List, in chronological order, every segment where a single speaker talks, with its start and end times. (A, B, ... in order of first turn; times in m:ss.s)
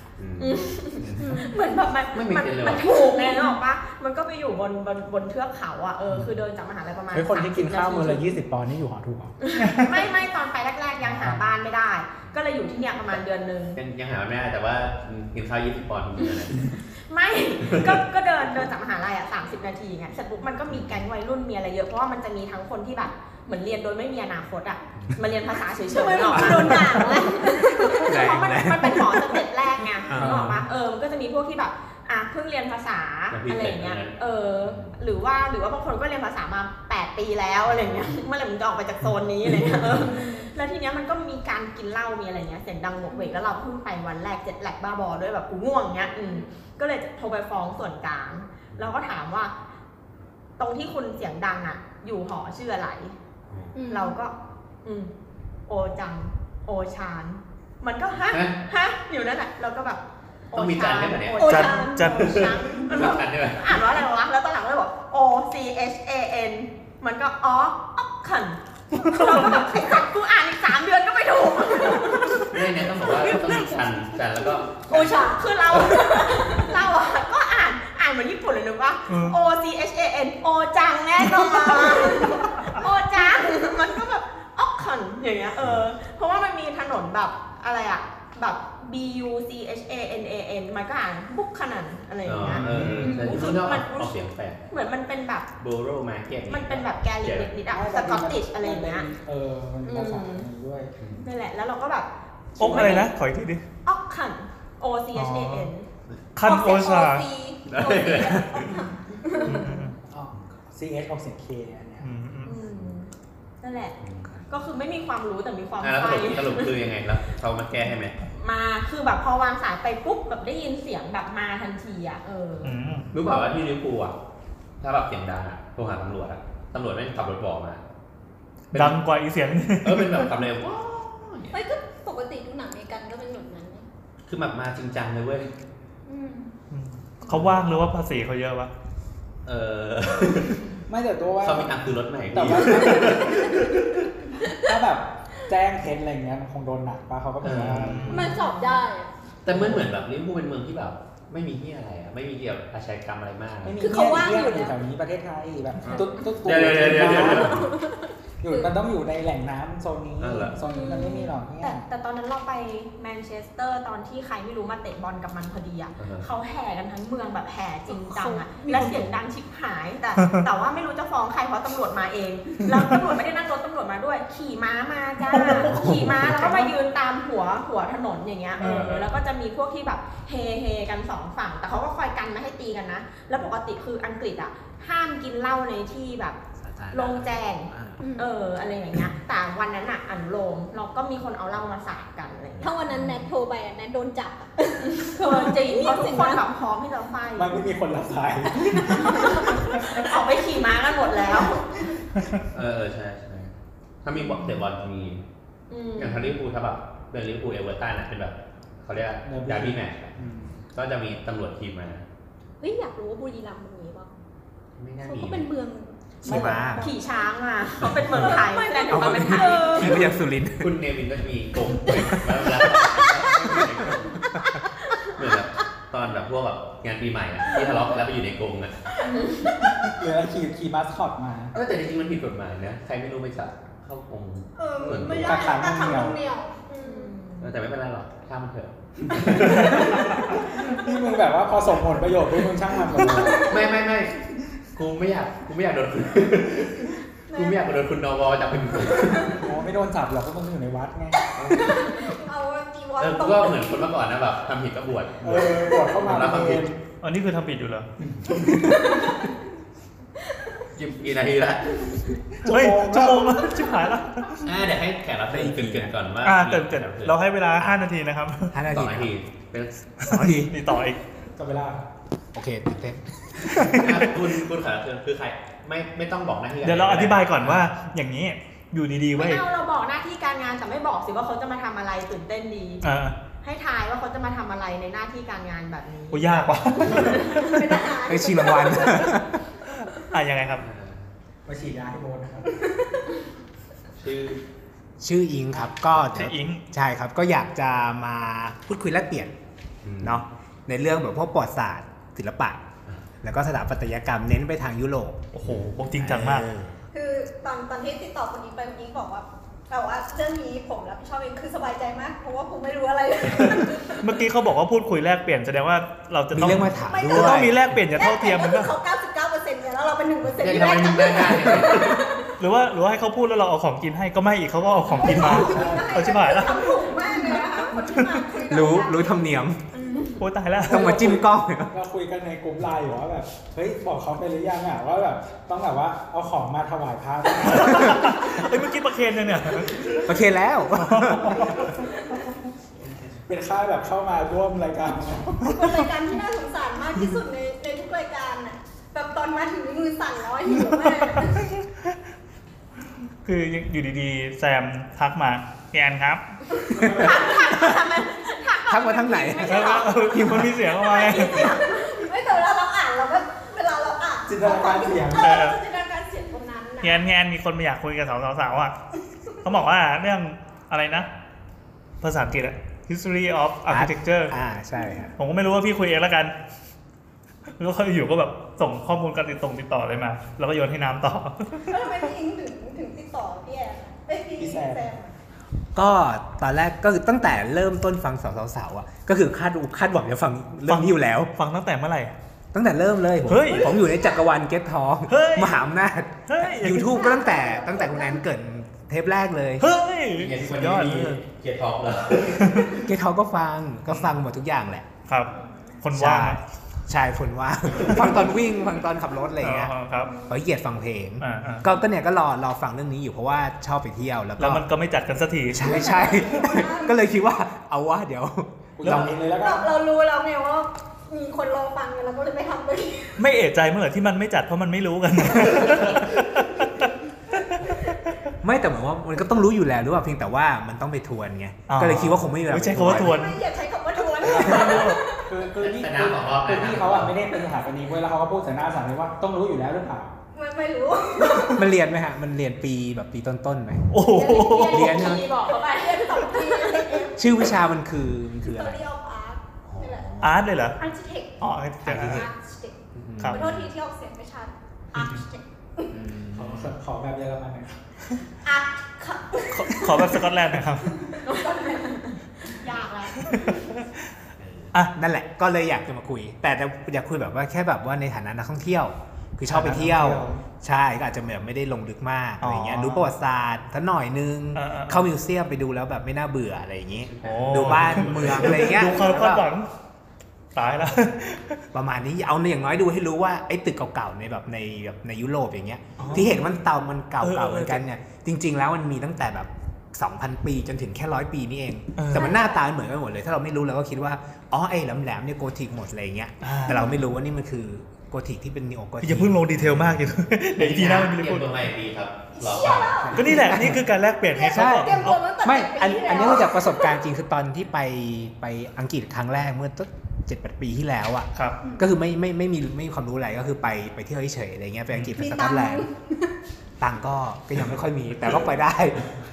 0:00.2-0:01.4 A
0:00.4-0:08.3 B
0:01.2-0:01.6 C
0:02.1-0:03.0 A
0:02.9-0:03.5 C
0:07.1-0:09.3 D
0:09.4-0:13.8 B
0:11.1-0:11.4 D
0:13.7-0:16.7 A
0:16.9-0:49.5 B
0:17.6-0:18.0 A
0:20.7-0:21.0 A
0:25.8-0:28.2 C
0:26.3-0:26.9 E
0:27.9-0:29.4 E
0:30.1-0:30.5 E
0:30.1-0:30.5 A
0:33.3-0:35.0 A
0:37.6-0:38.1 A
0:39.6-0:40.1 A
0:40.0-0:40.5 C
0:43.1-0:43.4 C
0:50.6-0:53.1 B
0:53.5-0:53.7 A
0:53.7-0:54.2 C
0:53.8-0:55.1 B
0:55.7-1:13.6 B
0:58.3-0:58.6 A
1:00.5-1:03.8 A
1:01.4-1:02.4 C
1:01.4-1:02.4 F
1:09.0-1:09.4 F
1:12.5-1:16.7 A
1:14.8-1:34.2 B
1:14.9-1:16.7 C
1:19.1-1:19.4 F
1:21.8-1:22.5 C
1:23.2-1:23.6 C
1:32.2-1:34.7 A
1:32.4-1:33.3 D
1:33.0-1:33.4 C
1:34.7-1:35.5 B
1:35.6-1:37.5 A
1:36.5-1:39.1 B
1:37.7-1:40.9 D
1:39.9-1:40.5 B
1:41.0-1:41.3 A
1:41.2-1:43.1 B
1:42.6-1:43.6 F
1:43.8-1:45.9 B
1:45.1-1:45.7 F
1:46.4-1:47.3 F
1:46.4-1:49.8 C
1:47.7-1:48.9 A
1:49.3-1:49.8 B
1:49.4-1:50.0 F
1:50.1-1:52.1 D
1:52.0-1:52.6 F
1:52.4-1:54.0 B
1:54.0-1:54.4 A
1:54.5-1:56.8 B
1:55.8-1:58.2 A
1:58.3-2:03.5 B
2:02.6-2:03.1 F
2:03.1-2:04.2 A
2:04.8-2:07.8 A
2:08.7-2:09.0 A
2:08.7-2:10.4 F
2:09.8-2:11.6 A
2:11.5-2:13.8 C
2:14.2-2:15.5 A
2:16.0-2:16.5 C
2:16.7-2:18.7 F
2:17.3-2:17.7 A
2:19.4-2:20.7 A
2:20.9-2:21.7 D
2:21.4-2:24.0 A
2:22.3-2:23.6 D
2:22.8-2:23.8 C
2:24.5-2:28.3 D
2:27.4-2:28.3 A
2:27.9-2:28.4 F
2:28.1-2:29.1 C
2:29.4-2:33.8 A
2:29.5-2:29.8 D
2:33.6-2:37.7 D
2:33.8-2:34.7 C
2:35.8-2:37.8 A
2:37.2-2:38.7 C
2:38.4-2:41.8 D
2:40.2-2:40.6 A
2:40.6-2:41.3 C
2:40.9-3:06.4 B
2:46.0-2:46.3 A
2:47.9-2:49.1 C
2:55.2-2:56.7 F
2:55.7-2:56.4 E
2:58.6-2:59.1 A
3:06.6-3:08.0 E
3:06.9-3:12.9 B
3:08.0-3:08.3 C
3:12.6-3:16.5 C
3:14.8-3:17.6 B
3:17.4-3:19.6 D
3:18.6-3:19.6 C
3:19.2-3:21.9 B
3:22.5-3:25.2 A
3:24.2-3:24.6 B
3:25.7-3:26.4 B
3:26.0-3:30.2 A
3:29.2-3:30.6 D
3:30.7-3:32.0 A
3:32.6-3:34.1 C
3:34.8-3:35.5 A
3:35.0-3:37.3 C
3:36.2-3:36.9 E
3:36.8-3:40.0 B
3:38.1-3:40.1 C
3:38.8-3:40.8 E
3:40.6-3:44.2 A
3:41.9-3:43.8 E
3:45.1-3:49.0 A
3:49.0-3:49.6 B
3:49.9-3:51.5 D
3:51.5-3:55.6 A
3:54.6-3:57.1 C
3:55.1-3:56.2 D
3:56.8-3:57.5 B
3:57.4-4:00.1 A
3:59.0-4:03.6 D
4:02.9-4:04.2 A
4:02.9-4:03.5 C
4:04.7-4:09.4 A
4:07.3-4:07.6 C
4:09.0-4:09.5 C
4:09.4-4:11.2 D
4:11.3-4:12.0 A
4:11.4-4:13.9 C
4:13.0-4:16.7 A
4:15.2-4:16.8 D
4:17.0-4:17.9 F
4:18.4-4:19.3 C
4:20.7-4:22.2 A
4:22.4-4:23.6 D
4:22.4-4:24.5 F
4:24.4-4:27.8 A
4:25.3-4:25.9 E
4:26.2-4:28.5 F
4:28.5-4:29.1 E
4:28.7-4:29.8 A
4:30.0-4:31.0 F
4:30.1-4:30.5 E
4:31.3-4:31.8 D
4:32.3-4:34.2 E
4:33.8-4:37.7 A
4:36.6-4:39.4 F
4:39.2-4:42.8 B
4:42.8-4:43.2 F
4:43.4-4:47.3 B
4:46.1-4:47.8 F
4:47.2-4:49.2 C
4:48.0-4:49.3 E
4:49.8-4:50.6 F
4:50.6-4:51.1 A
4:51.4-4:52.6 D
4:54.0-4:54.4 A
4:55.0-4:59.3 E
4:55.9-4:56.6 F
4:59.8-5:00.2 A
5:00.0-5:02.6 E
5:03.2-5:05.2 E
5:05.3-5:06.5 F
5:06.0-5:06.7 E
5:06.9-5:14.0 C
5:14.0-5:18.7 F
5:16.3-5:17.6 E
5:16.9-5:22.3 C
5:20.4-5:22.0 A
5:22.4-5:27.0 F
5:24.8-5:30.2 C
5:25.2-5:26.1 D
5:27.7-5:28.3 F
5:28.4-5:29.6 E
5:30.2-5:31.0 F
5:30.7-5:38.2 D
5:30.7-5:31.7 E
5:37.4-5:40.1 F
5:40.0-5:41.5 E
5:40.7-5:41.6 F
5:43.3-5:45.5 D
5:45.5-5:51.5 C
5:51.2-5:51.5 F
5:53.2-5:56.2 F
5:56.6-5:57.4 C
5:56.8-6:01.6 B
5:58.7-6:00.5 E
5:59.4-6:01.6 F
6:00.8-6:07.0 C
6:04.3-6:05.4 D
6:05.2-6:05.6 F
6:06.8-6:08.8 F
6:09.3-6:11.1 F
6:12.0-6:14.4 F
6:13.7-6:15.1 E
6:14.8-6:15.1 C
6:15.2-6:16.3 F
6:17.6-6:22.0 F
6:21.6-6:25.1 C
6:24.4-6:24.9 D
6:25.7-6:31.3 E
6:30.7-6:32.1 F
6:32.5-6:39.7 E
6:33.2-6:33.7 F
6:33.7-6:34.1 C
6:35.1-6:35.7 F
6:36.3-6:37.0 F
6:36.9-6:38.2 C
6:39.6-6:41.2 F
6:40.2-6:42.8 A
6:42.4-6:42.8 F
6:42.8-6:44.9 E
6:45.1-6:46.4 F
6:45.3-6:45.8 C
6:45.9-6:49.7 E
6:47.9-6:48.2 F
6:49.4-6:50.2 F
6:50.0-6:50.4 C
6:50.3-6:54.7 E
6:51.2-6:51.7 F
6:54.4-6:55.9 F
6:55.5-6:59.1 E
6:55.6-6:57.0 C
6:58.8-6:59.8 D
6:58.8-6:59.1 F
6:59.4-7:03.2 C
7:03.2-7:06.9 F
7:05.6-7:06.0 A
7:07.6-7:08.0 F
7:08.4-7:13.2 E
7:11.7-7:13.4 F
7:12.9-7:15.2 C
7:14.2-7:20.1 D
7:14.3-7:15.0 F
7:15.6-7:17.2 A
7:20.3-7:21.7 C
7:21.5-7:23.9 E
7:23.9-7:24.9 F
7:24.0-7:27.4 C
7:24.4-7:26.9 B
7:24.7-7:25.3 E
7:27.1-7:28.8 E
7:28.4-7:30.2 C
7:29.6-7:30.3 A
7:30.2-7:30.8 F
7:30.8-7:31.4 C
7:31.4-7:32.3 F
7:31.8-7:32.3 E
7:32.0-7:36.0 C
7:33.0-7:33.6 E
7:35.9-7:36.7 E
7:36.3-7:37.8 D
7:38.4-7:40.3 C
7:39.5-7:41.0 F
7:40.8-7:43.3 C
7:41.2-7:42.2 B
7:43.2-7:43.9 F
7:44.4-7:44.7 A
7:44.9-7:59.5 E
7:49.5-7:50.4 F
7:49.6-7:50.3 D
7:52.4-7:53.1 F
7:54.5-7:55.1 F
7:57.1-7:58.8 A
7:57.2-7:59.7 F
8:00.5-8:01.6 F
8:01.7-8:20.0 E
8:06.0-8:06.5 F
8:07.2-8:07.8 F
8:12.0-8:12.3 F
8:12.1-8:12.6 C
8:16.4-8:17.0 F
8:19.0-8:21.6 F
8:20.6-8:23.1 A
8:22.4-8:23.3 C
8:23.1-8:23.8 E
8:23.2-8:25.2 F
8:24.3-8:27.0 C
8:24.4-8:35.9 E
8:31.3-8:31.6 F
8:35.2-8:36.3 C
8:36.8-8:39.1 E